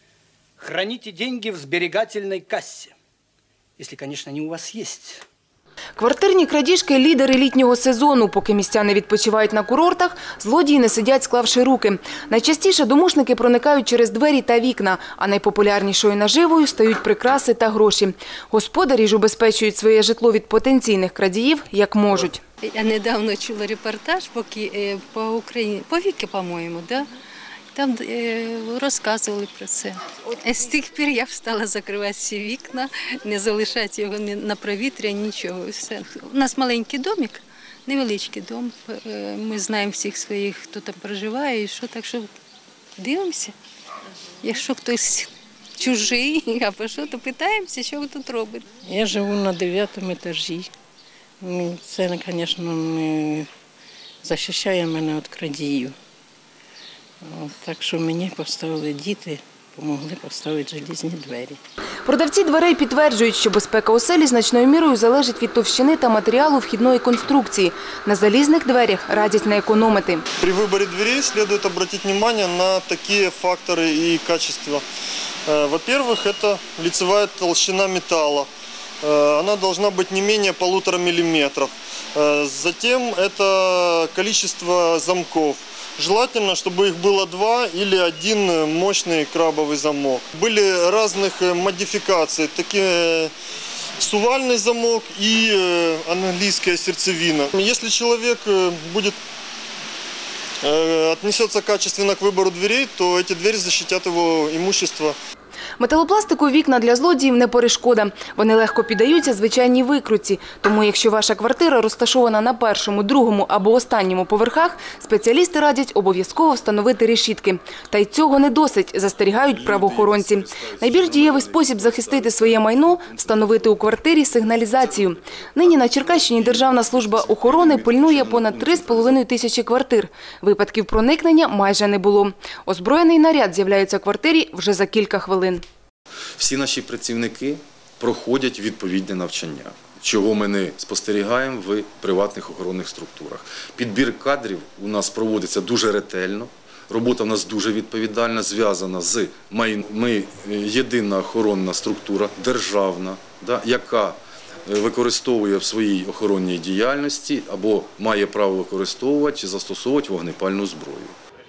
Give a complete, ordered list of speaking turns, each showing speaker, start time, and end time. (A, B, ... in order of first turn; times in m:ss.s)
0:00.6-0:02.9 A
0:03.8-0:05.2 A
0:06.0-0:22.4 B
0:22.6-0:27.1 C
0:27.7-0:42.3 C
0:43.0-0:43.6 C
0:44.4-0:48.7 C
0:48.8-0:50.7 D
0:51.4-0:53.5 D
0:54.2-0:56.0 D
0:57.2-1:01.6 D
1:02.0-1:10.2 B
1:10.4-1:14.8 E
1:15.4-1:18.5 E
1:19.0-1:33.3 E
1:34.0-1:39.2 E
1:40.6-1:45.2 E
1:45.8-2:15.6 B
1:59.5-2:04.0 F
2:04.8-2:09.2 F
2:16.4-2:41.1 F